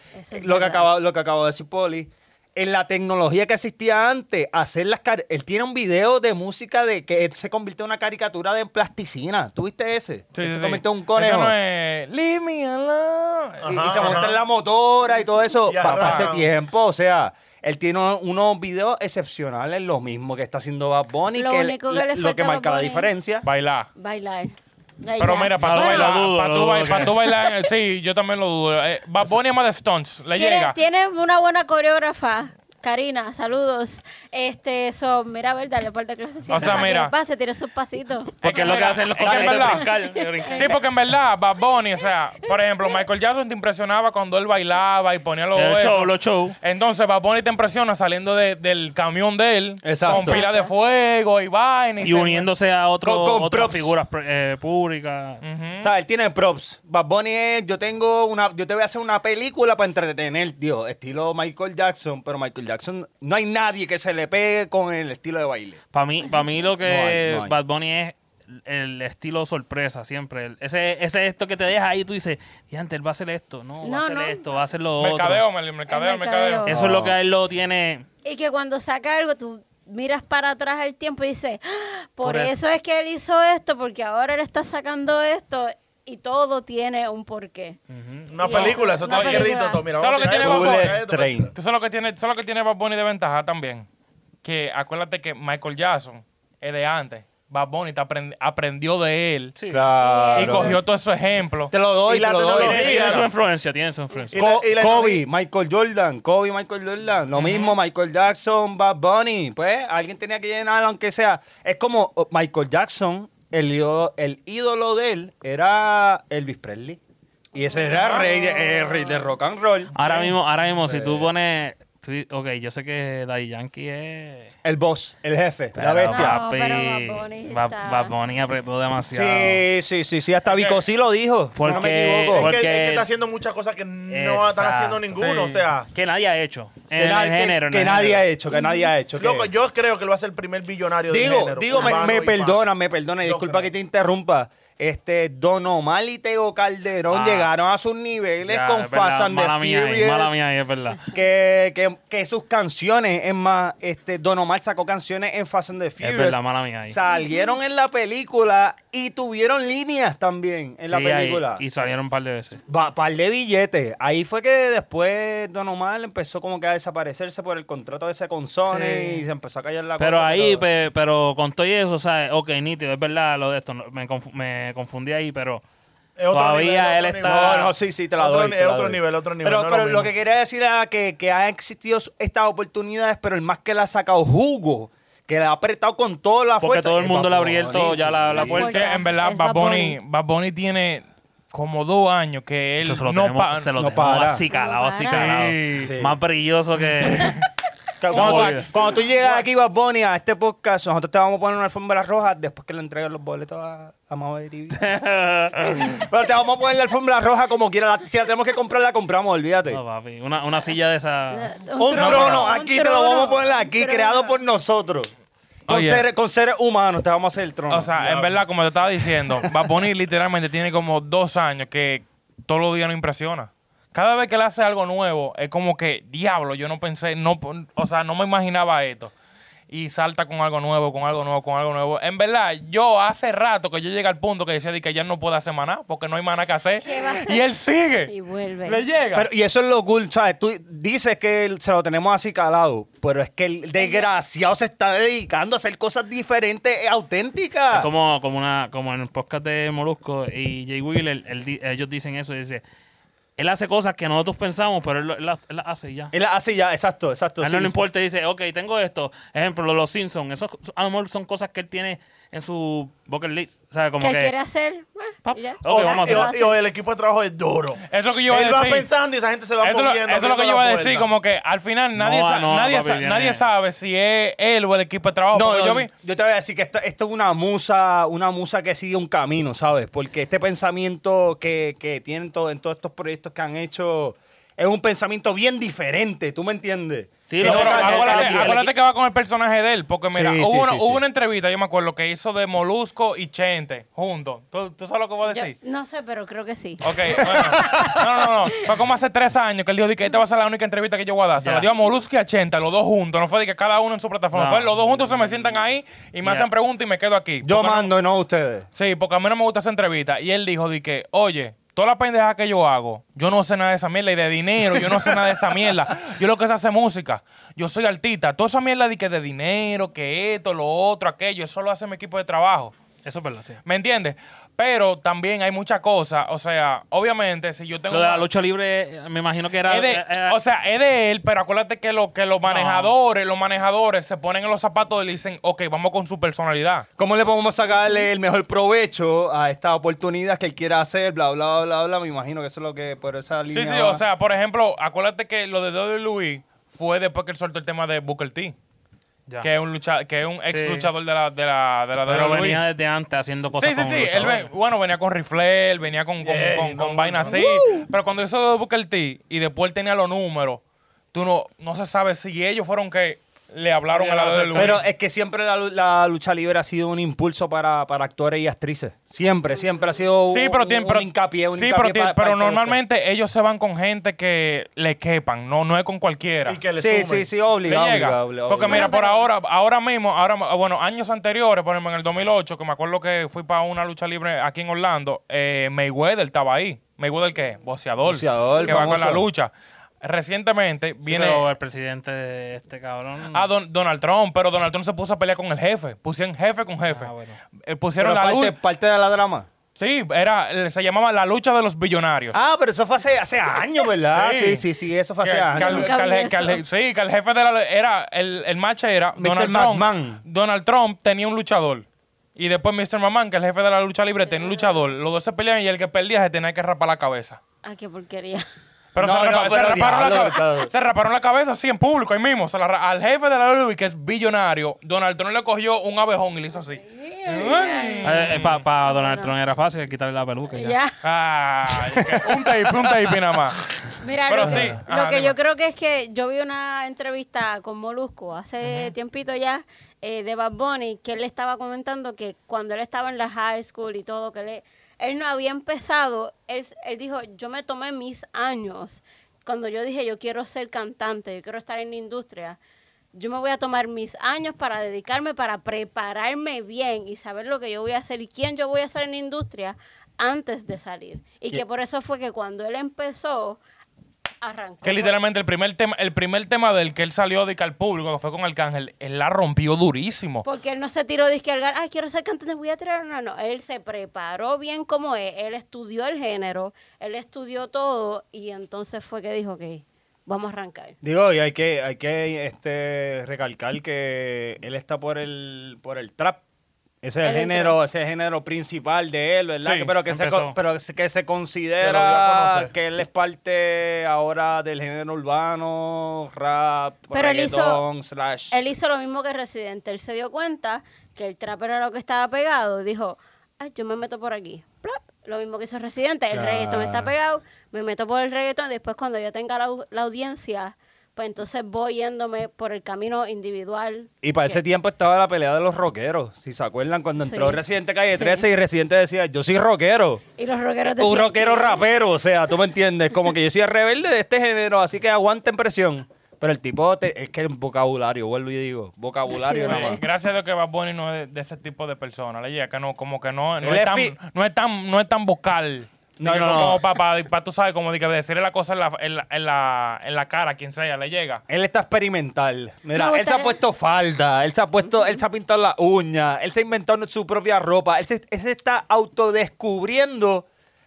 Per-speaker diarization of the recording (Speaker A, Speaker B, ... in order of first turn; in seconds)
Speaker A: 0.1-0.9, 21.3-23.1, 23.9-26.2, 30.4-39.0, 39.5-40.7, 50.1-50.7, 66.2-66.7, 73.8-74.5, 75.9-76.8, 78.2-87.8, 88.4-89.9, 100.0-100.8, 117.6-119.3, 126.1-128.1, 138.5-138.9, 157.1-157.5, 188.3-190.0, 194.5-195.4, 211.3-214.3, 236.8-237.4, 238.1-238.8, 243.8-244.1, 264.0-266.6, 295.2-297.9, 378.6-379.3, 405.5-406.6, 414.2-414.8, 417.6-418.4, 426.8-429.3, 430.5-431.0, 434.0-452.6, 453.1-463.6, 464.4-465.1, 470.4-481.0, 487.2-487.8, 497.1-497.8, 498.5-514.6, 517.2-517.6, 518.1-518.4, 520.4-521.8, 529.3-530.0, 542.9-543.5, 544.8-545.2
Speaker B: 0.3-11.5, 13.7-23.4, 39.2-39.6, 49.8-50.4, 53.0-53.9, 55.8-65.8, 66.8-67.5, 76.7-77.2, 90.4-91.5, 99.7-100.8, 101.7-103.2, 104.3-117.0, 117.5-120.3, 120.9-121.3, 124.6-126.4, 129.1-132.6, 136.9-139.5, 141.1-150.4, 151.1-161.6, 162.7-170.7, 177.2-188.6, 193.8-194.4, 195.8-196.2, 198.0-204.8, 205.5-209.8, 211.8-215.1, 215.7-217.9, 239.1-247.9, 256.1-257.7, 275.3-288.6, 290.1-291.0, 297.3-297.9, 307.4-308.7, 337.0-344.0, 364.6-372.8, 376.8-378.9, 388.0-389.3, 398.0-399.5, 402.3-405.9, 409.2-410.2, 419.0-420.7, 432.0-432.4, 481.0-486.4, 487.0-498.6, 506.3-507.1, 514.2-520.2, 521.0-530.0, 533.6-534.1, 536.2-536.8, 541.5-550.5
Speaker C: 10.3-14.3, 15.8-16.3, 23.4-23.9, 25.2-30.8, 36.5-37.1, 38.4-39.9, 40.5-52.5, 55.4-55.9, 75.0-76.7, 88.4-91.0, 91.5-93.9, 94.4-99.5, 100.3-101.7, 107.3-107.7, 130.5-130.8, 135.2-135.7, 188.6-193.7, 195.1-195.8, 196.8-197.4, 198.1-199.4, 211.9-212.5, 215.7-216.1, 217.7-229.1, 229.7-238.1, 238.6-239.3, 267.9-268.9, 269.6-275.9, 287.4-295.5, 296.8-307.9, 308.7-322.7, 323.6-328.3, 329.7-336.9, 343.5-348.5, 349.4-352.6, 353.5-360.6, 361.1-364.8, 370.3-376.6, 377.6-389.5, 390.0-391.4, 393.3-397.1, 397.6-398.6, 399.8-402.4, 404.1-404.6, 405.2-417.4, 418.9-428.6, 431.0-433.6, 434.3-435.4, 438.6-438.9, 464.8-470.4, 489.6-489.9, 529.6-541.4
Speaker D: 13.6-14.4, 15.7-16.5, 88.3-91.5, 102.0-103.3, 104.3-105.2, 131.7-135.9, 139.2-142.7, 143.2-143.7, 176.2-180.1, 217.9-218.3, 265.6-271.1, 356.2-357.9, 364.0-364.7, 376.4-377.3, 491.8-492.7
Speaker E: 25.6-27.3, 38.4-40.8, 45.5-46.5, 52.0-55.4, 65.9-75.4, 76.7-78.0, 82.2-82.6, 87.9-88.3, 99.5-99.8, 102.6-104.3, 119.9-124.5, 125.7-129.6, 131.6-133.1, 134.1-135.2, 135.9-138.2, 147.1-147.5, 148.4-151.0, 156.0-157.0, 160.9-162.6, 168.6-169.3, 170.0-175.6, 176.3-177.7, 186.6-189.0, 192.8-197.4, 198.1-198.7, 204.7-206.0, 209.7-211.5, 247.7-252.6, 253.4-256.1, 257.4-264.3, 265.2-266.3, 272.0-273.4, 287.3-288.7, 301.4-301.7, 304.3-305.6, 306.2-306.5, 323.0-323.6, 327.9-330.4, 332.4-332.9, 350.5-350.9, 352.0-354.5, 364.0-364.8, 391.0-393.4, 396.9-397.4, 428.0-430.8, 490.1-490.6